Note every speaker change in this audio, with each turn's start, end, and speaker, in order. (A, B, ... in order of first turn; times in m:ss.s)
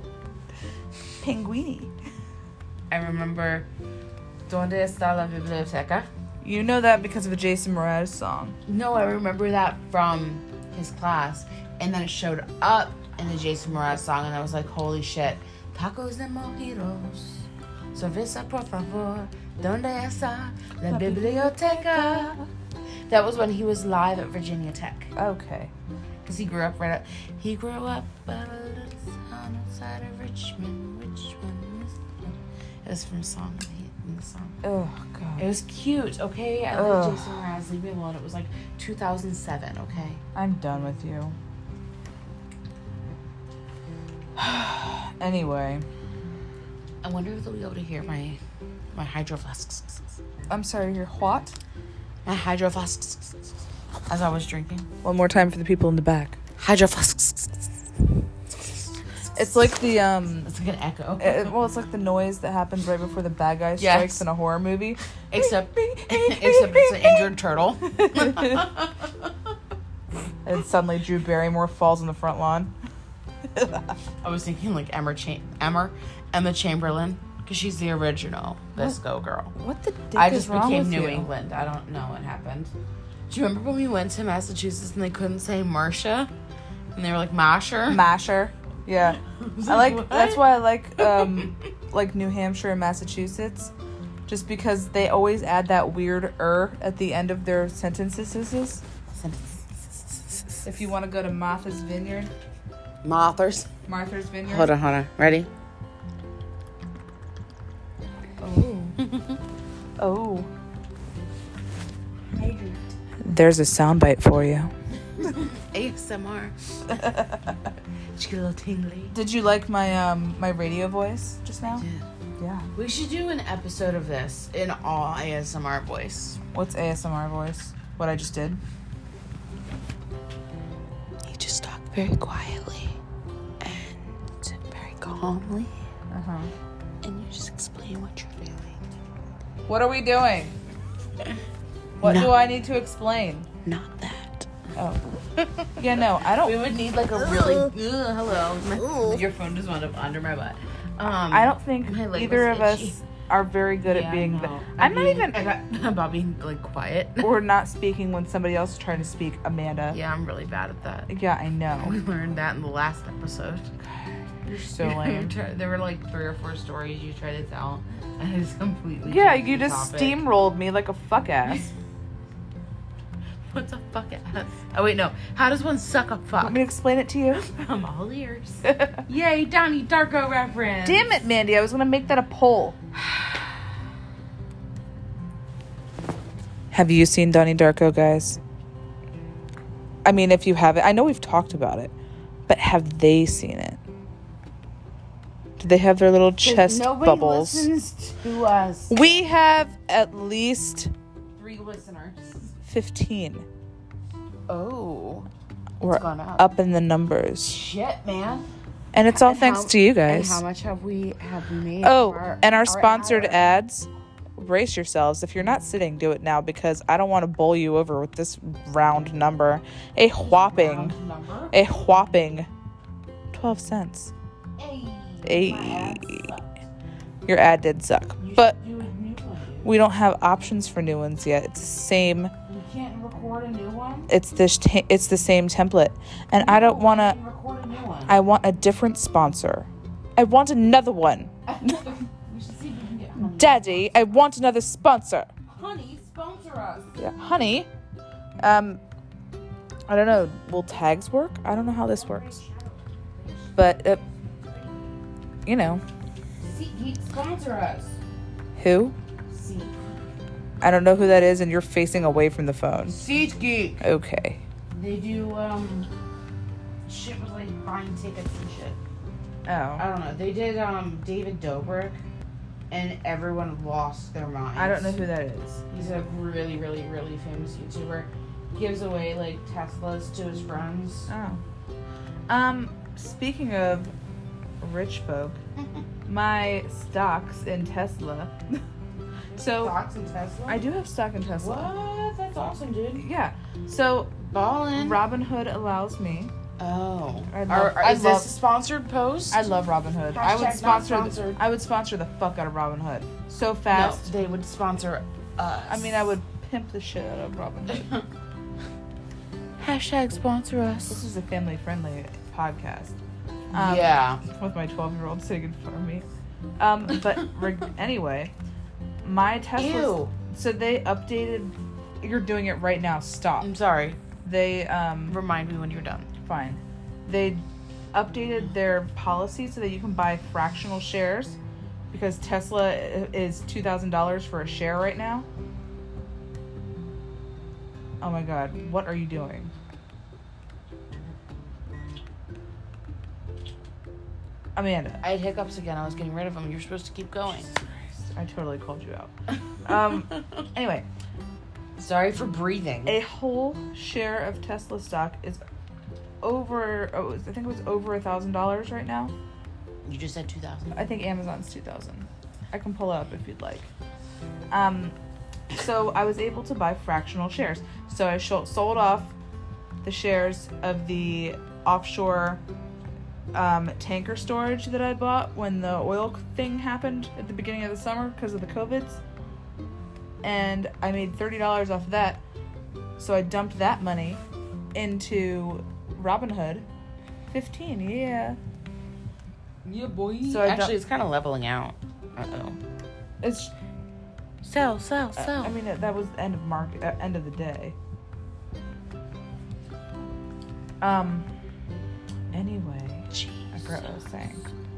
0:01.2-0:01.9 A
0:02.9-0:03.7 B
0:04.5-0:06.1 B
0:06.4-0:08.6 A
0:08.6-0:22.4 B
0:20.9-0:22.5 A
0:23.1-0:25.1 B
0:25.2-0:25.7 A
0:26.2-0:34.6 B
0:34.6-0:35.4 A
0:35.4-0:40.2 B
0:36.7-0:37.4 A
0:40.3-0:41.3 A
0:44.4-0:45.8 A
0:47.0-0:48.4 B
0:48.9-0:50.0 B
0:50.5-0:51.5 A
0:52.2-0:53.5 B
0:54.1-0:54.9 B
0:55.0-0:56.4 A
0:56.6-0:57.7 B
0:59.3-1:00.5 A
1:00.4-1:01.5 B
1:01.2-1:07.3 A
1:03.8-1:04.2 B
1:05.3-1:09.3 B
1:08.0-1:08.7 A
1:10.4-1:12.7 A
1:13.5-1:13.9 A
1:14.2-1:19.5 B
1:19.5-1:21.3 A
1:20.1-1:22.7 B
1:23.3-1:26.3 B
1:26.9-1:28.0 B
1:27.9-1:33.7 A
1:29.1-1:31.7 B
1:34.3-1:38.8 A
1:39.1-1:40.7 B
1:40.6-1:42.3 A
1:43.0-1:43.7 B
1:43.8-1:44.7 A
1:44.5-1:45.5 B
1:48.4-1:49.0 A
1:49.0-1:49.4 B
1:50.0-1:50.5 A
1:52.4-1:52.8 B
1:53.2-1:54.7 A
1:55.2-1:57.1 B
1:56.9-1:57.5 A
1:58.2-1:59.2 B
1:59.1-2:01.8 A
2:01.6-2:02.0 B
2:02.4-2:02.7 A
2:02.7-2:06.4 B
2:06.5-2:08.6 A
2:11.2-2:13.0 B
2:13.6-2:15.8 B
2:16.1-2:16.5 A
2:17.0-2:18.7 B
2:19.7-2:20.5 A
2:22.0-2:23.5 A
2:22.0-2:22.4 B
2:23.6-2:24.5 B
2:24.8-2:25.0 A
2:25.3-2:33.0 B
2:25.8-2:26.6 A
2:31.3-2:35.4 A
2:33.8-2:37.3 B
2:37.2-2:40.0 A
2:39.9-2:41.1 B
2:41.1-2:42.0 A
2:41.8-2:43.7 B
2:44.4-2:45.3 A
2:44.5-2:50.2 B
2:49.0-2:51.7 A
2:53.5-2:56.6 B
2:56.4-2:57.4 A
2:57.3-3:01.1 B
2:58.7-2:59.0 A
3:00.8-3:02.8 A
3:06.7-3:08.4 A
3:10.0-3:11.9 A
3:12.5-3:13.8 A
3:15.6-3:17.7 A
3:16.4-3:19.2 B
3:18.9-3:20.9 A
3:21.4-3:22.5 B
3:22.6-3:23.5 A
3:24.5-3:26.5 B
3:25.8-3:27.6 A
3:27.4-3:28.4 B
3:28.9-3:30.4 A
3:29.0-3:33.5 B
3:31.8-3:40.9 A
3:40.2-3:41.6 B
3:41.5-3:42.5 A
3:43.3-3:44.1 A
3:44.6-3:46.6 B
3:45.2-3:46.3 A
3:47.2-3:48.6 A
3:48.2-3:49.7 B
3:49.6-3:52.3 A
3:52.5-3:54.1 B
3:54.1-3:57.2 A
3:56.4-3:58.2 B
3:58.1-4:01.8 A
4:01.5-4:04.0 B
4:03.2-4:05.3 A
4:05.5-4:07.0 B
4:07.0-4:07.7 A
4:08.4-4:08.8 A
4:09.9-4:12.4 A
4:11.9-4:13.6 B
4:13.6-4:14.0 A
4:14.4-4:14.7 B
4:15.4-4:15.8 A
4:16.4-4:18.0 B
4:18.6-4:18.9 A
4:19.3-4:19.9 B
4:20.6-4:23.0 A
4:22.9-4:23.8 B
4:23.8-4:24.4 A
4:24.7-4:25.9 B
4:26.8-4:28.8 B
4:29.4-4:29.8 A
4:29.8-4:32.0 B
4:32.7-4:35.0 B
4:34.6-4:35.6 A
4:35.7-4:41.1 B
4:41.1-4:41.4 A
4:42.3-4:43.9 A
4:44.6-4:45.4 A
4:46.0-4:48.6 A
4:49.4-4:49.7 A
4:49.4-4:50.6 B
4:50.5-4:51.7 A
4:51.4-4:53.0 B
4:53.0-4:54.2 A
4:54.2-4:55.0 B
4:54.7-4:56.3 A
4:56.6-4:59.5 B
4:57.3-4:58.3 A
4:59.3-5:04.1 A
5:00.1-5:01.4 B
5:03.7-5:06.0 B
5:05.7-5:07.9 A
5:07.7-5:08.0 B
5:09.6-5:11.0 B
5:10.9-5:13.0 A
5:13.5-5:14.2 B
5:13.5-5:16.0 A
5:16.6-5:18.3 A
5:19.0-5:23.5 A
5:19.6-5:20.1 B
5:23.4-5:24.0 B
5:24.2-5:25.2 A
5:25.1-5:26.1 B
5:26.2-5:31.4 A
5:31.9-5:35.3 A
5:38.0-5:39.5 A
5:44.6-5:45.0 A
5:45.0-5:47.5 B
5:47.6-5:49.1 A
5:49.6-5:50.8 A
5:49.9-5:50.4 B
5:51.8-5:53.0 B
5:52.8-5:55.4 A
5:56.2-5:59.1 A
5:59.8-6:00.8 B
6:00.7-6:03.7 A
6:04.5-6:04.9 A
6:05.5-6:09.1 A
6:09.8-6:12.4 A
6:13.3-6:19.0 A
6:20.2-6:22.2 A
6:23.0-6:24.2 A
6:24.7-6:26.6 A
6:27.3-6:28.4 A
6:29.6-6:32.6 B
6:30.2-6:30.7 A
6:33.2-6:33.5 A
6:34.4-6:35.6 B
6:35.2-6:37.7 A
6:40.8-6:41.3 A
6:42.3-6:44.4 A
6:43.1-6:44.0 B